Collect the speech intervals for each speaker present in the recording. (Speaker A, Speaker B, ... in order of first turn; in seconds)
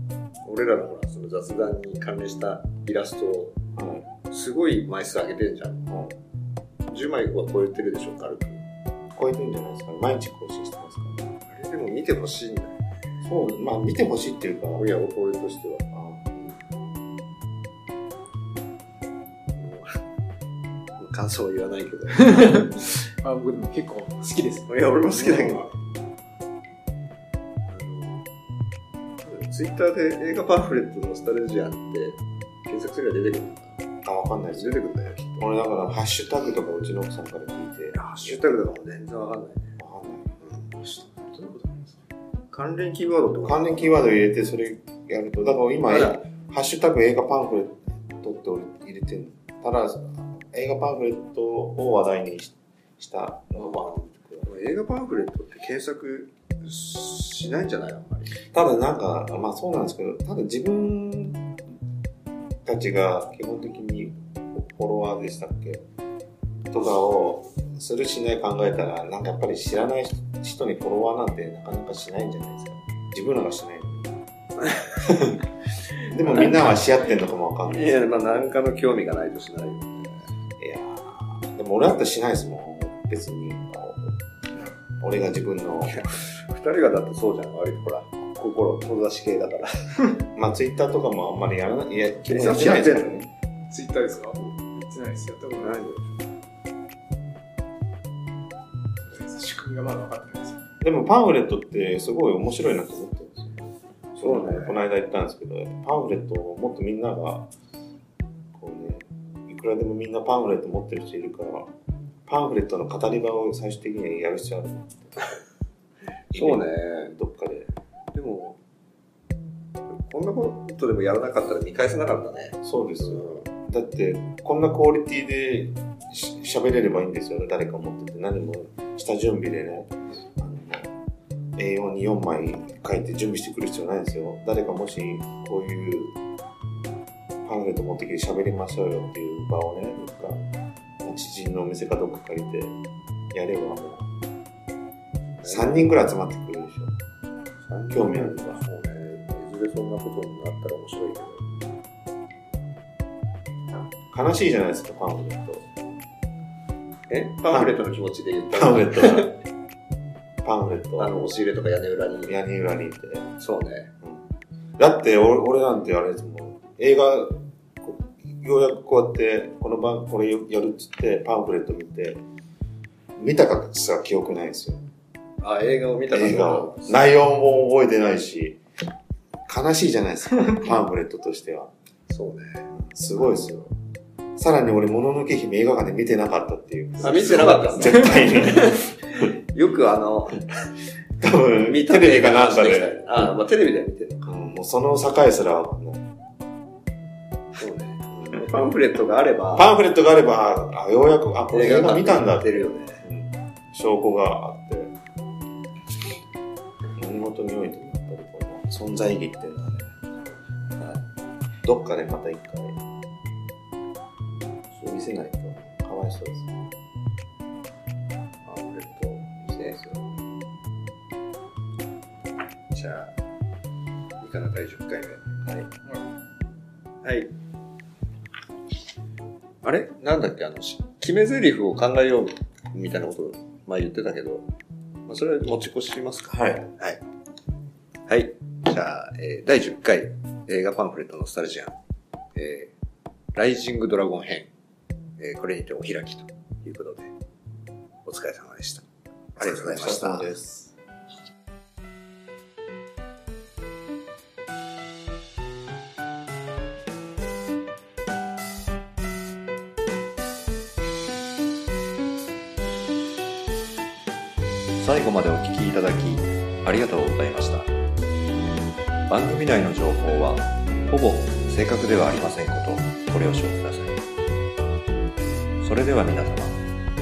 Speaker A: 0.4-3.6, 4.3-5.9, 6.9-8.6, 11.5-12.8, 14.8-16.6, 19.6-20.0, 21.0-22.7, 24.7-25.7, 27.7-28.2, 29.2-33.8, 34.5-35.5, 37.9-39.7, 42.5-44.0, 45.9-46.2, 53.5-58.4, 74.6-74.9, 76.3-76.5, 77.7-80.2, 85.9-90.1, 92.3-93.1, 95.6-96.1, 104.2-104.8, 116.3-117.1, 118.1-118.6, 119.9-123.5, 145.4-145.9, 147.6-151.5, 157.1-159.4, 161.0-162.3, 163.4-163.9, 175.4-177.0, 182.1-182.7, 187.0-190.5, 191.6-194.3, 197.6-199.7, 201.5-203.0, 210.8-211.1, 218.4-219.8, 222.7-223.2, 224.2-225.2, 227.0-227.3, 229.6-234.4, 235.1-237.0, 238.1-241.8, 242.4-242.7, 243.3-244.5, 245.2-247.1, 248.1-248.9, 249.4-250.3, 264.8-267.7, 269.1-274.0, 275.6-276.6
Speaker B: 3.8-4.1, 5.9-6.2, 9.1-11.3, 13.2-14.9, 15.9-16.2, 34.0-34.8, 35.4-38.8, 39.8-40.4, 43.4-54.5, 58.4-61.5, 62.6-65.8, 66.7-74.1, 75.0-78.0, 80.6-84.2, 85.0-86.1, 90.3-93.3, 100.8-107.5, 108.5-111.7, 112.3-115.3, 116.3-117.7, 122.6-130.9, 131.6-136.2, 137.4-140.4, 141.0-142.8, 143.3-144.1, 145.4-146.9, 147.9-148.6, 154.1-155.7, 158.5-159.3, 160.4-161.3, 162.3-163.3, 164.8-172.2, 173.2-174.8, 176.1-178.6, 179.5-181.7, 182.7-183.7, 184.4-188.9, 191.2-192.9, 194.3-196.1, 199.6-204.9, 207.0-209.9, 211.6-212.8, 214.8-216.5, 219.4-220.1, 236.3-236.7, 249.4-250.8
Speaker C: 22.2-25.7, 40.8-42.0, 76.3-77.2, 93.7-95.8, 99.0-100.6, 187.1-188.6